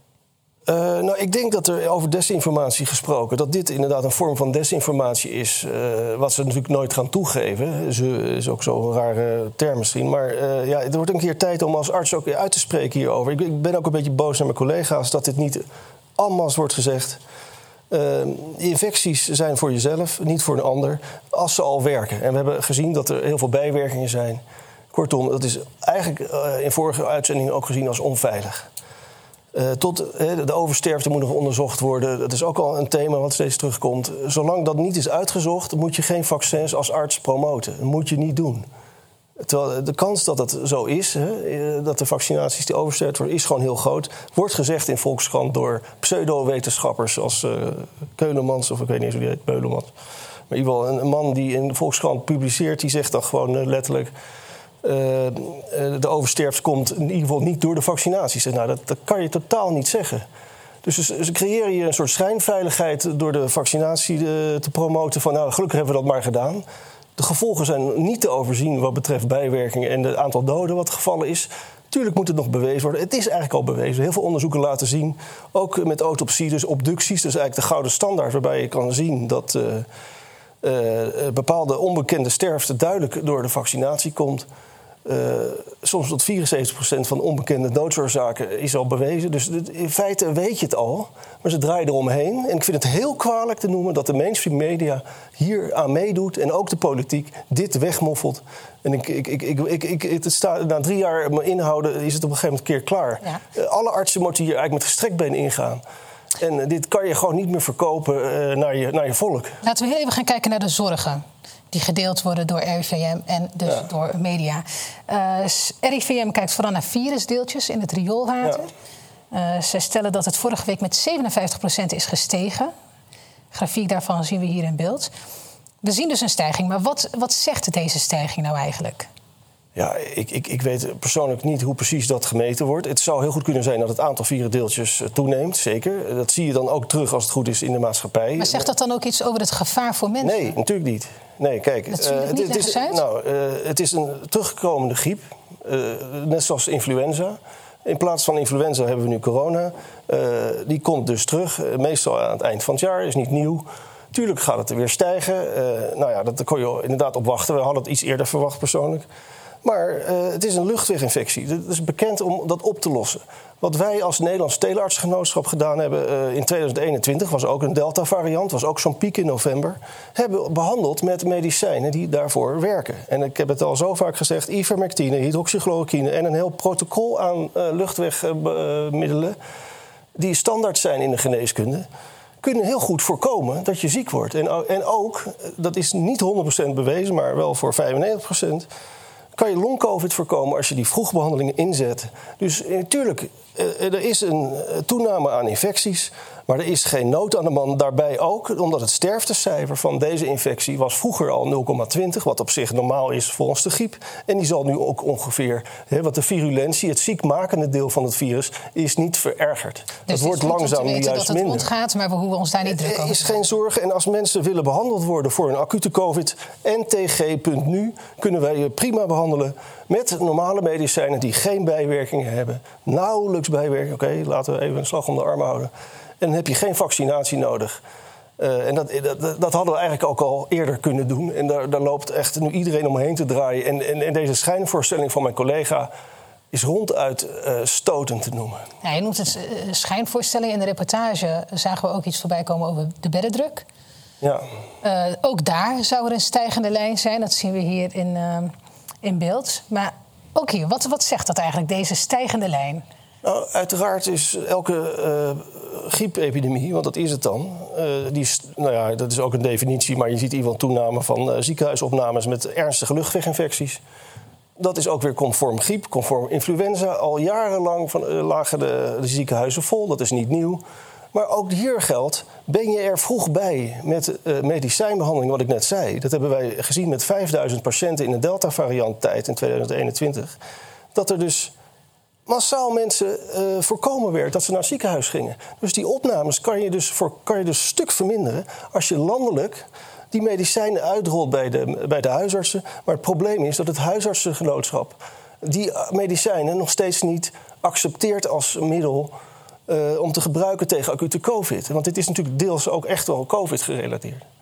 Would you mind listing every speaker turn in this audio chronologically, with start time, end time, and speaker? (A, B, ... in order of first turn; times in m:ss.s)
0:00.7-0:17.2 A
0:17.9-0:24.4 A
0:24.9-0:28.7 A
0:29.5-0:38.7 A
0:39.4-0:49.9 A
0:50.5-0:54.1 A
0:54.8-1:00.3 A
1:00.8-1:06.6 A
1:07.2-1:19.9 A
1:20.6-1:24.5 A
1:25.0-1:45.8 A
1:46.4-1:49.6 A
1:49.6-1:58.7 B
1:59.3-2:02.7 B
2:03.5-2:05.1 B
2:05.8-2:09.1 B
2:09.8-2:18.7 A
2:18.4-2:20.6 B
2:20.2-2:39.1 A
2:21.9-2:23.0 B
2:39.6-2:59.4 A
3:00.2-3:01.9 A
3:02.4-3:08.7 A
3:09.4-3:31.7 A
3:30.1-3:33.4 B
3:32.7-3:47.8 A
3:48.4-3:55.9 A
3:56.5-3:58.6 A
3:58.8-4:03.6 B
4:04.2-4:04.5 A
4:04.8-4:12.8 B
4:13.2-4:23.8 A
4:24.6-4:40.4 A
4:41.0-4:41.5 A
4:42.3-4:59.2 A
4:59.7-5:04.3 A